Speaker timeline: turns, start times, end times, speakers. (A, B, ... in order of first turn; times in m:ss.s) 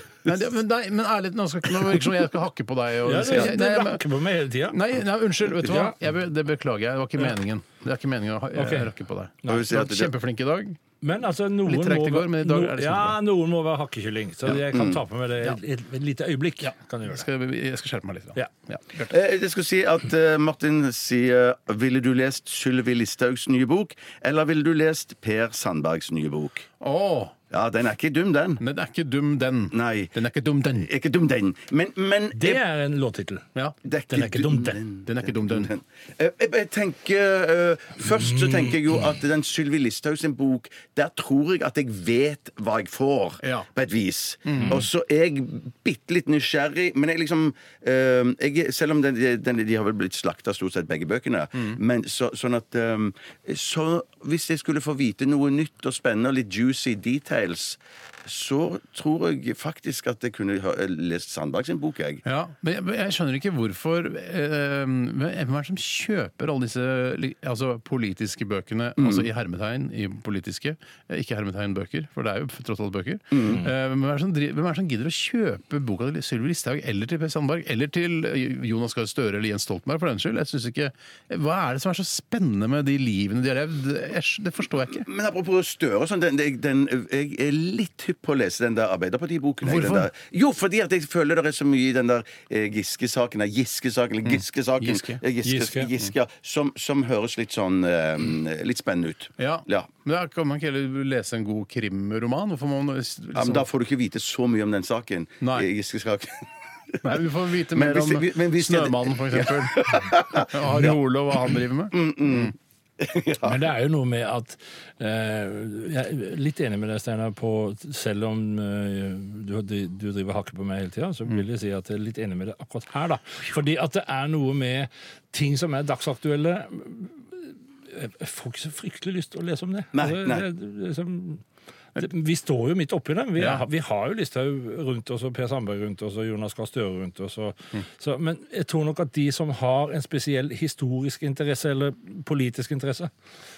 0:00.2-0:04.1 A
0:03.0-0:04.8 B
0:04.7-0:10.8 A
0:05.6-0:05.9 B
0:08.5-0:08.9 B
0:09.5-0:10.1 C
0:11.0-0:17.3 B
0:11.6-0:13.2 A
0:14.5-0:15.0 C
0:17.0-0:19.1 A
0:19.1-0:26.7 C
0:26.8-0:27.4 A
0:27.5-0:28.6 C
0:28.6-0:30.9 A
0:29.7-0:30.1 C
0:30.8-0:32.6 C
0:32.3-0:33.5 B
0:33.8-1:02.2 C
0:34.1-0:34.8 B
0:35.0-0:35.7 A
0:43.4-0:43.7 A
0:44.4-0:44.8 A
1:02.2-1:25.0 A
1:09.0-1:09.2 C
1:13.3-1:13.6 C
1:25.0-1:39.9 C
1:29.6-1:30.1 A
1:34.8-1:35.2 A
1:35.4-1:35.9 B
1:39.4-1:43.7 A
1:43.3-1:47.0 C
1:45.4-1:45.7 A
1:47.0-1:52.5 A
1:47.7-1:50.9 C
1:51.9-1:53.6 C
1:53.4-2:11.4 B
2:09.9-2:10.4 C
2:12.0-2:23.1 B
2:13.4-2:13.6 A